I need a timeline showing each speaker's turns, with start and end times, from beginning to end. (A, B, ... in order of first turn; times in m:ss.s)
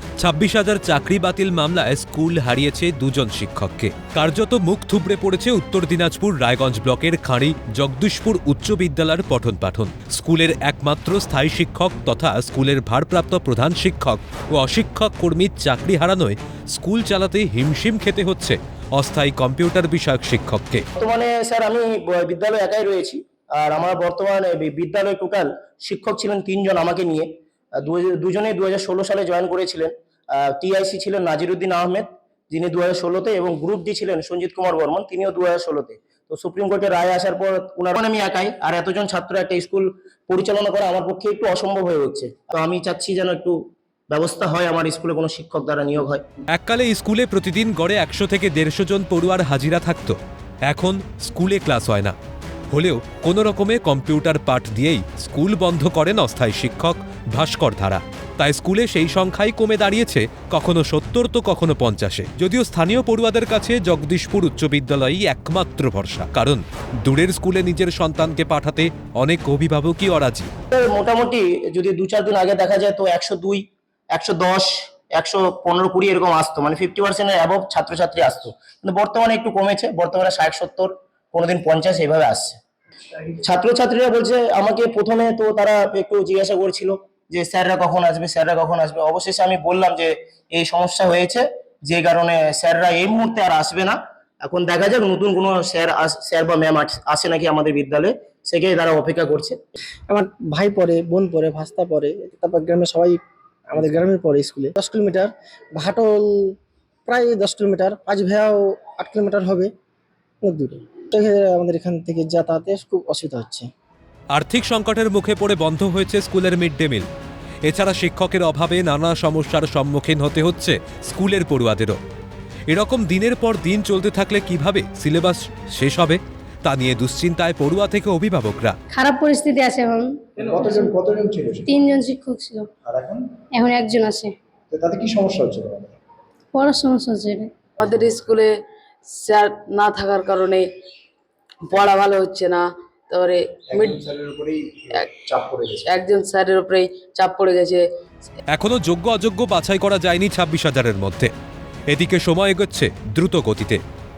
0:00.2-0:20.8 A
0:21.0-0:27.3 B
0:27.8-0:43.6 B
0:44.1-0:46.2 B
0:46.5-0:52.2 A
0:52.7-1:10.5 A
1:10.7-1:22.6 B
1:23.4-1:39.6 B
1:40.1-1:46.5 C
1:47.1-1:49.7 C
1:50.4-1:53.7 C
1:54.3-1:57.1 A
1:57.6-2:02.0 A
2:02.7-2:08.8 A
2:08.9-2:10.9 D
2:10.4-2:11.9 E
2:11.6-2:12.7 D
2:12.8-2:13.3 E
2:13.5-2:14.3 D
2:14.7-2:16.0 E
2:16.5-2:17.5 D
2:17.8-2:18.5 F
2:17.8-2:18.1 E
2:19.2-2:20.6 F
2:21.7-2:24.0 F
2:23.7-2:25.9 E
2:25.8-2:27.8 F
2:28.5-2:31.3 A
2:31.9-2:33.8 A